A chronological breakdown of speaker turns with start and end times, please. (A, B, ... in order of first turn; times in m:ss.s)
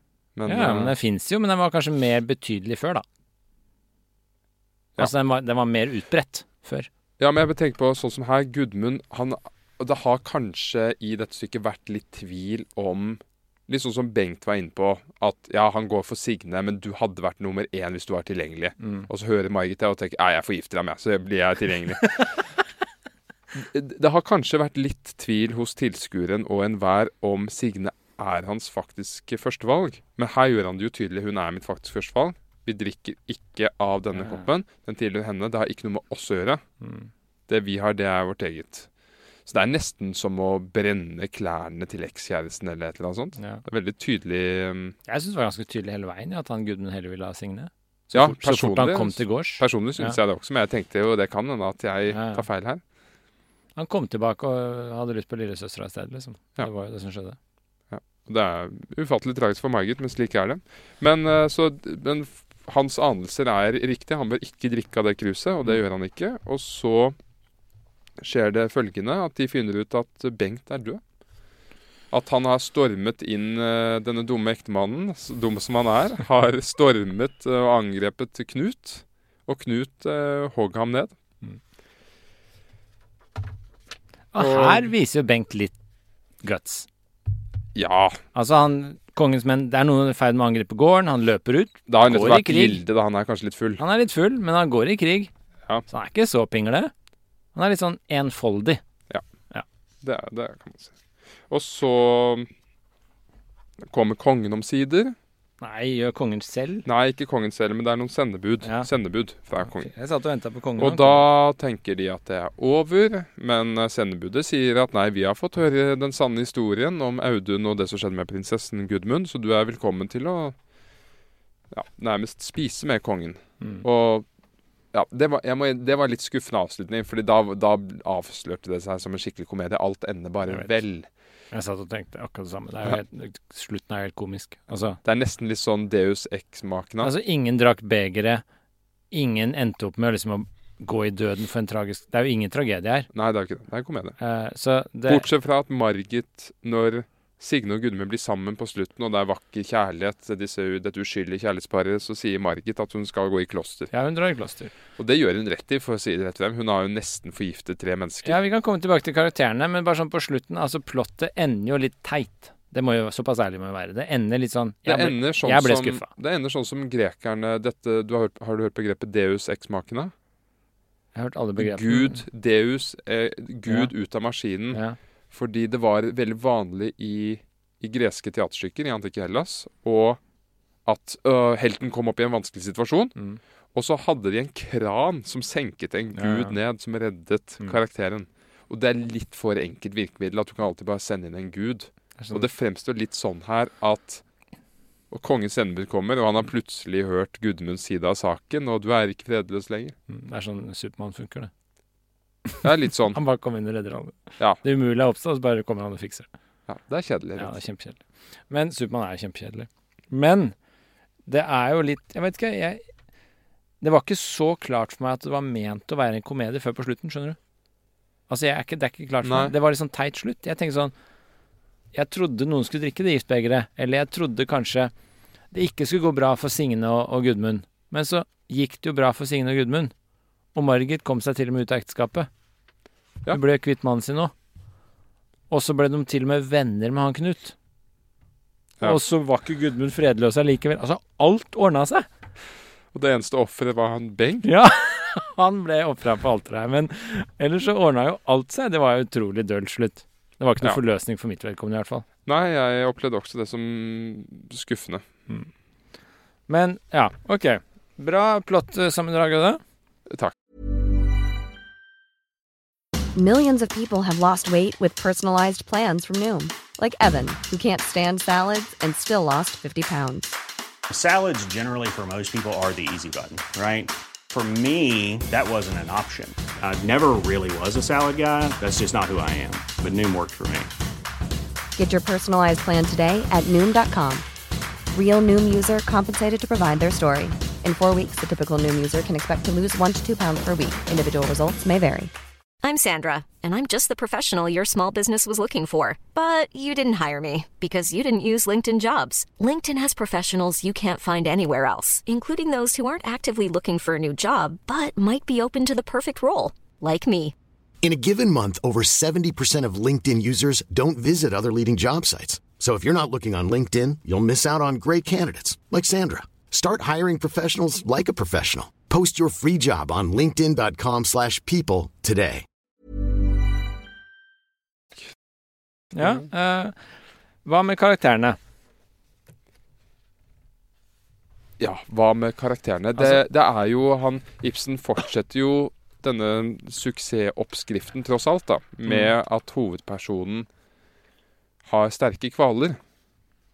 0:00.4-0:00.9 A
0:00.5-0:03.0 B
0:05.0-0:06.9 B
0:07.2-0:22.4 A
0:18.8-0:19.1 B
0:23.5-0:36.6 A
0:34.1-0:34.4 B
0:36.8-0:37.1 B
0:37.5-0:38.9 A
0:39.5-0:45.0 A
0:45.1-0:50.2 B
0:48.1-0:52.8 A
0:52.1-0:52.4 B
0:53.8-0:57.4 B
0:57.9-1:07.2 A
1:08.2-1:11.0 A
1:12.1-1:21.1 A
1:24.3-1:25.7 B
1:24.4-1:24.9 A
1:26.4-1:26.9 B
1:27.7-1:28.2 A
1:28.3-1:32.8 B
1:31.9-1:33.8 A
1:33.8-1:35.3 B
1:35.9-1:36.9 B
1:37.5-1:38.8 B
1:40.0-1:40.9 A
1:41.5-1:42.5 A
1:43.9-1:45.2 A
1:45.6-1:46.8 B
1:46.8-1:49.9 A
1:48.6-1:48.9 B
1:49.6-1:51.2 B
1:50.8-2:00.5 A
2:01.7-2:04.2 A
2:04.9-2:11.1 A
2:11.5-2:15.0 B
2:15.0-2:17.1 A
2:17.0-2:18.4 B
2:19.1-2:23.1 B
2:23.1-2:24.2 A
2:24.2-2:25.2 B
2:25.1-2:33.9 A
2:33.9-2:34.7 B
2:35.0-2:38.4 A
2:38.2-2:46.1 B
2:44.8-2:50.1 A
2:51.1-2:52.2 B
2:51.6-2:54.8 A
2:54.7-2:55.0 B
2:55.3-3:00.2 A
3:00.8-3:03.1 A
3:03.7-3:14.2 A
3:06.2-3:06.6 B
3:12.2-3:12.4 B
3:15.1-3:20.0 A
3:20.1-3:21.5 B
3:22.6-3:23.2 A
3:23.1-3:26.3 B
3:26.7-3:27.6 A
3:27.4-3:30.5 B
3:31.3-3:32.8 B
3:33.8-3:37.4 B
3:38.3-3:40.9 B
3:39.2-3:39.5 A
3:41.9-3:44.9 B
3:45.5-3:49.9 B
3:50.5-3:52.3 B
3:53.3-3:54.3 B
3:55.5-3:57.5 B
3:58.8-4:02.1 B
4:02.9-4:04.4 A
4:04.4-4:12.0 B
4:12.2-4:15.0 A
4:16.5-4:19.6 B
4:23.1-4:30.3 C
4:30.9-4:40.7 D
4:41.8-4:44.2 C
4:44.9-4:52.1 C
4:52.6-5:07.3 E
5:07.8-5:22.4 F
5:25.9-5:28.4 B
5:31.6-5:40.5 A
5:33.0-5:33.2 B
5:38.8-5:39.1 B
5:41.6-5:42.8 A